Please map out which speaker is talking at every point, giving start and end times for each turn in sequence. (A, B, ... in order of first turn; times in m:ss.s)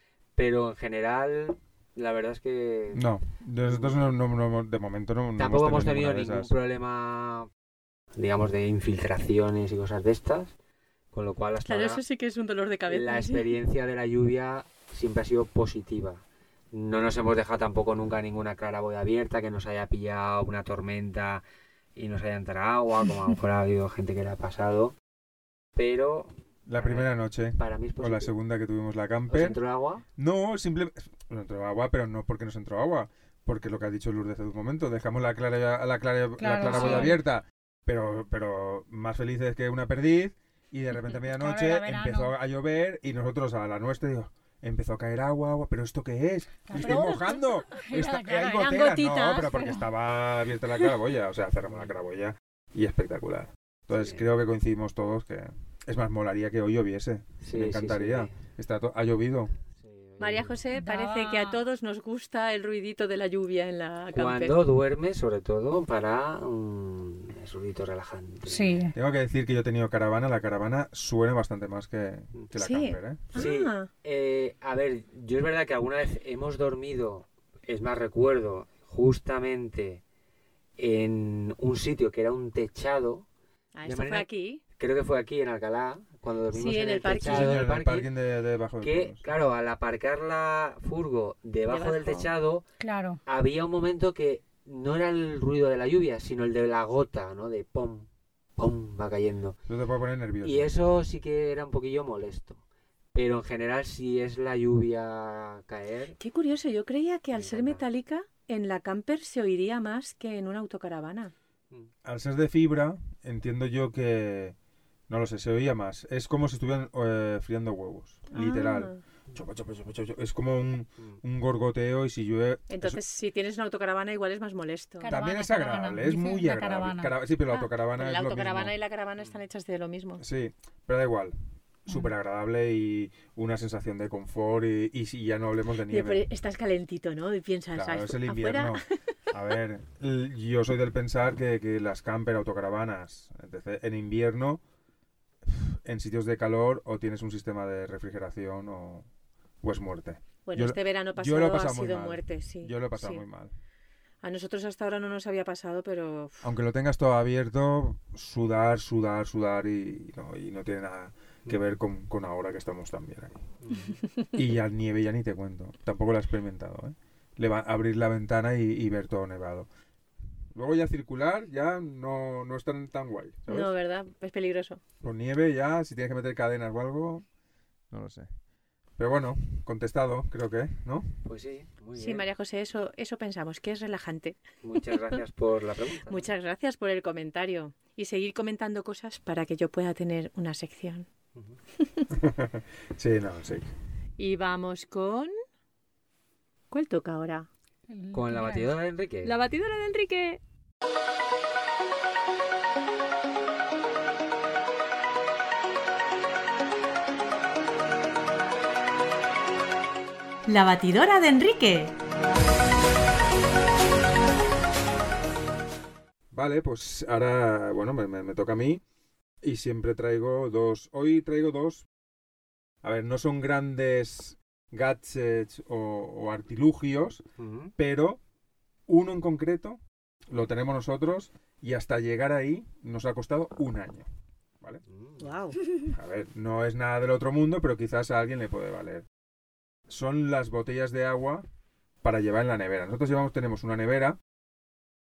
0:00.4-0:03.0 A
0:02.9-0:06.6 B
0:03.7-0:04.1 A
0:05.4-0:07.5 A
0:08.1-0:10.5 A
0:11.1-0:12.0 A
0:11.6-0:13.5 C
0:12.9-0:21.4 A
0:21.9-0:24.9 A
0:25.8-0:28.3 A
0:26.7-0:29.6 B
0:29.3-0:30.0 A
0:30.2-0:59.5 B
0:36.4-0:37.2 D
0:36.6-0:37.2 A
0:41.1-0:42.3 D
0:46.7-0:49.9 D
0:51.6-0:51.9 A
0:54.0-0:54.2 A
0:57.4-0:58.4 A
0:59.7-1:00.6 A
1:00.2-1:04.6 C
1:00.7-1:01.6 D
1:04.1-1:08.9 A
1:08.5-1:08.9 D
1:08.9-1:13.3 B
1:12.6-1:13.9 C
1:13.3-1:20.0 A
1:20.8-1:23.2 A
1:23.7-1:24.6 C
1:23.8-1:24.3 A
1:24.8-1:28.1 A
1:26.5-1:27.7 C
1:27.2-1:29.3 B
1:28.8-1:32.6 A
1:31.7-1:32.3 C
1:32.8-1:33.2 D
1:33.2-1:39.6 A
1:39.7-1:40.7 B
1:40.4-1:42.6 A
1:43.1-1:46.2 A
1:46.2-1:51.3 C
1:47.3-1:47.8 A
1:52.0-1:54.5 B
1:55.1-2:03.0 B
1:58.3-1:59.0 C
2:02.7-2:05.1 C
2:05.0-2:07.2 D
2:05.1-2:08.7 B
2:07.5-2:10.2 C
2:10.2-2:16.2 B
2:15.9-2:18.8 C
2:17.8-2:24.6 B
2:25.4-2:29.1 B
2:29.6-2:33.5 B
2:30.4-2:33.2 C
2:34.2-2:36.4 C
2:36.4-2:43.4 B
2:43.6-2:43.9 A
2:44.3-2:49.7 B
2:50.5-2:53.7 B
2:53.5-2:54.8 C
2:55.0-2:57.2 B
2:57.9-2:58.3 B
2:59.0-3:01.1 B
3:01.2-3:02.2 A
3:01.9-3:05.2 C
3:04.6-3:06.3 A
3:06.0-3:11.1 C
3:11.8-3:12.1 C
3:12.1-3:13.7 B
3:14.2-3:15.3 C
3:16.7-3:17.5 C
3:17.9-3:18.7 D
3:18.1-3:19.4 A
3:19.2-3:20.4 C
3:30.5-3:32.0 C
3:36.3-3:38.8 B
3:39.4-3:41.8 B
3:42.8-3:47.2 B
3:47.4-3:47.7 A
3:47.8-3:48.2 B
3:48.9-3:54.1 B
3:54.8-3:55.4 A
3:55.2-3:55.6 C
3:55.9-3:59.0 B
3:59.9-4:01.4 B
4:02.0-4:04.2 B